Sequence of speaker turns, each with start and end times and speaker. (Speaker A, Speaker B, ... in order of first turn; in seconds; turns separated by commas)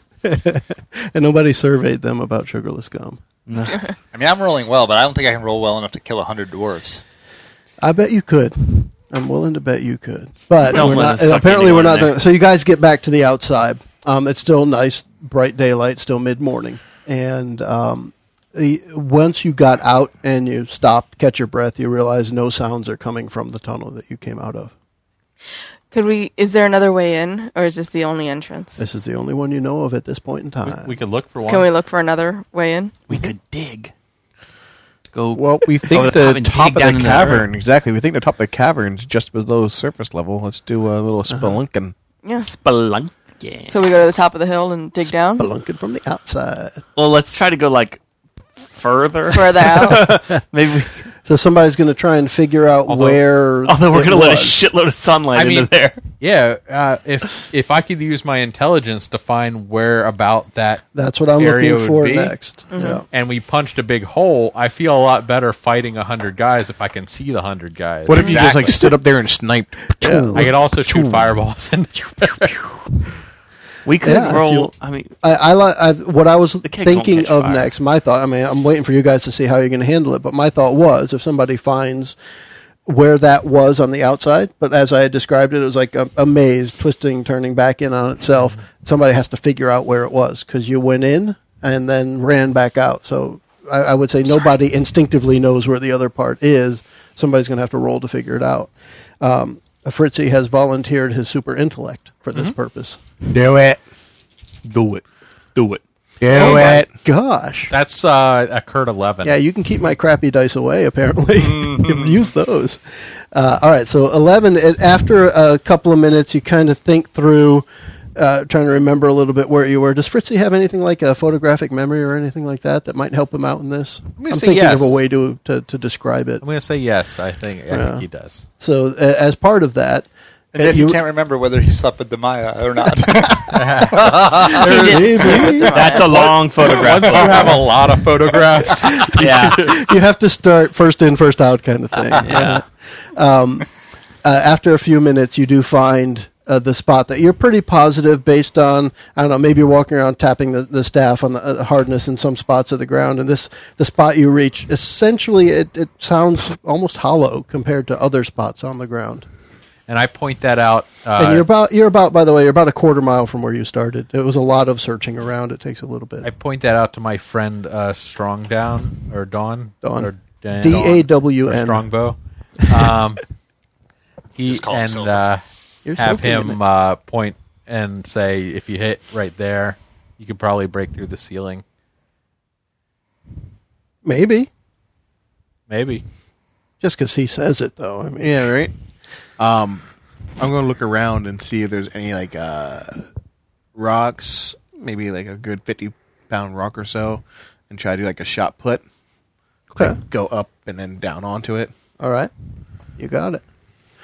Speaker A: 0.2-3.2, Speaker B: 3.5-3.8, Speaker C: 4.1-7.0, Speaker A: 7.8-24.7, Speaker B: 10.6-12.2, Speaker D: 25.9-28.8, Speaker A: 28.8-30.9, Speaker E: 30.6-31.7, Speaker D: 31.5-33.0, Speaker B: 33.1-33.9, Speaker B: 35.1-37.5, Speaker F: 35.3-41.9, Speaker A: 41.3-41.6, Speaker B: 42.4-43.8, Speaker D: 43.7-45.5, Speaker A: 45.4-46.8, Speaker B: 47.0-48.0, Speaker B: 48.6-51.1, Speaker D: 49.3-50.1, Speaker A: 50.0-50.4, Speaker A: 51.2-54.6, Speaker E: 52.9-53.1, Speaker B: 53.6-56.0, Speaker E: 55.3-60.8, Speaker A: 60.9-63.0, Speaker E: 61.4-62.3, Speaker D: 62.7-63.0, Speaker E: 63.1-68.6, Speaker F: 68.0-71.3, Speaker C: 68.2-68.8, Speaker A: 70.0-70.5, Speaker E: 70.3-72.6, Speaker B: 73.8-75.1, Speaker A: 74.0-82.2, Speaker B: 76.6-77.7, Speaker A: 82.8-103.0, Speaker F: 103.3-103.8, Speaker F: 104.7-105.0, Speaker F: 106.2-106.9, Speaker A: 106.3-107.7, Speaker E: 107.7-109.4, Speaker A: 109.2-112.8, Speaker C: 111.4-112.1, Speaker A: 113.3-126.4, Speaker E: 124.2-125.0, Speaker E: 126.4-128.4, Speaker A: 127.7-128.0, Speaker A: 128.6-131.0, Speaker C: 130.5-134.7, Speaker E: 133.5-135.2, Speaker D: 134.6-136.2, Speaker B: 134.7-137.7, Speaker A: 134.7-135.8, Speaker E: 136.1-139.7, Speaker C: 136.7-137.4, Speaker A: 138.6-143.7, Speaker B: 139.2-139.7, Speaker B: 142.2-142.6, Speaker A: 144.2-159.3, Speaker E: 159.9-161.4, Speaker A: 161.2-166.3, Speaker E: 166.2-173.2, Speaker A: 169.8-171.9, Speaker E: 174.3-175.4, Speaker C: 174.5-175.2, Speaker A: 175.8-176.6, Speaker E: 175.9-181.6, Speaker A: 184.0-184.5, Speaker E: 185.7-186.0, Speaker A: 186.8-188.5, Speaker F: 188.2-188.7, Speaker F: 189.4-189.8, Speaker F: 190.4-193.0, Speaker F: 193.7-198.8, Speaker F: 199.8-201.7, Speaker A: 202.0-202.3, Speaker A: 203.0-203.4